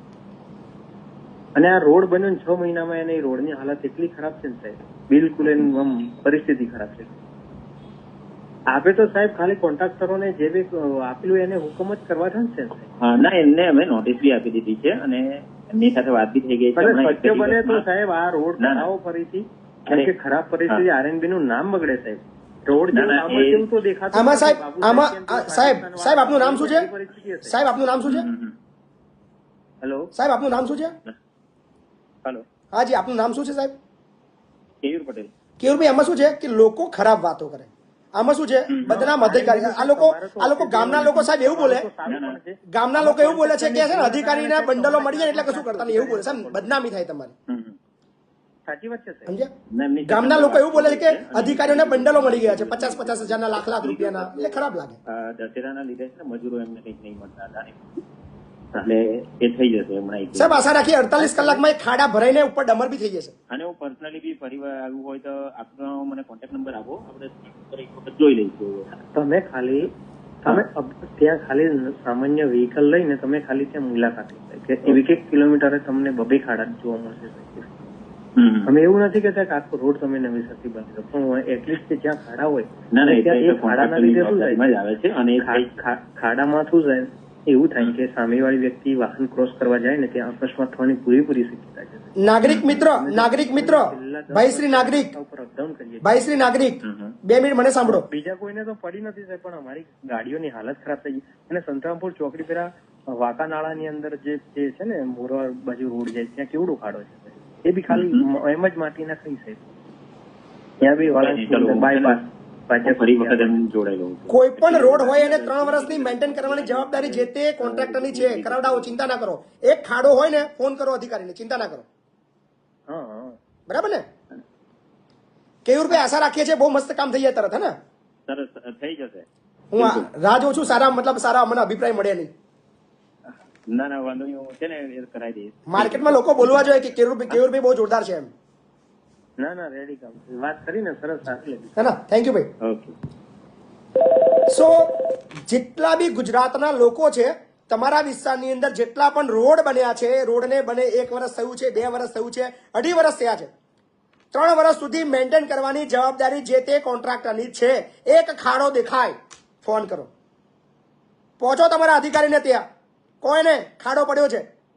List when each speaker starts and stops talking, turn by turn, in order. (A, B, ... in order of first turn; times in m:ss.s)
0:01.6-0:07.1 A
0:08.7-0:12.9 A
0:13.0-0:17.8 B
0:16.8-0:27.6 A
0:18.6-0:18.9 B
0:22.9-0:23.7 B
0:24.1-0:26.9 C
0:27.4-0:28.3 C
0:28.0-0:28.6 B
0:29.8-0:30.1 A
0:30.2-0:31.0 C
0:32.7-0:33.8 C
0:34.8-0:35.3 B
0:35.6-0:41.9 C
0:38.7-0:39.2 B
0:38.8-0:46.7 A
0:42.0-0:42.4 B
0:42.7-0:47.3 C
0:47.5-0:47.8 B
0:48.7-0:49.4 A
0:49.3-0:49.5 C
0:49.7-0:57.9 B
0:50.0-0:55.0 C
0:58.8-1:01.6 B
1:00.4-1:03.3 C
1:03.5-1:08.9 B
1:09.0-1:09.9 A
1:10.4-1:17.8 A
1:14.8-1:15.2 B
1:18.4-1:18.7 B
1:18.7-1:24.6 A
1:22.9-1:25.7 B
1:25.4-1:32.2 A
1:32.2-1:35.1 C
1:32.5-1:32.8 B
1:32.7-1:36.2 A
1:36.0-1:38.0 C
1:36.8-1:37.2 B
1:37.8-1:49.6 A
1:47.9-1:48.3 B
1:50.8-1:53.5 A
1:51.2-1:52.2 B
1:52.8-1:58.9 B
1:54.3-2:01.9 C
2:02.9-2:03.4 A
2:03.7-2:04.0 C
2:05.6-2:07.8 C
2:08.3-2:09.3 B
2:09.7-2:12.3 C
2:09.8-2:10.1 B
2:13.7-2:17.4 B
2:15.7-2:18.3 C
2:19.4-2:21.7 A
2:21.8-2:22.5 C
2:22.6-2:23.0 B
2:24.5-2:33.5 C
2:34.3-2:40.1 C
2:41.4-2:42.6 C
2:43.2-2:44.5 C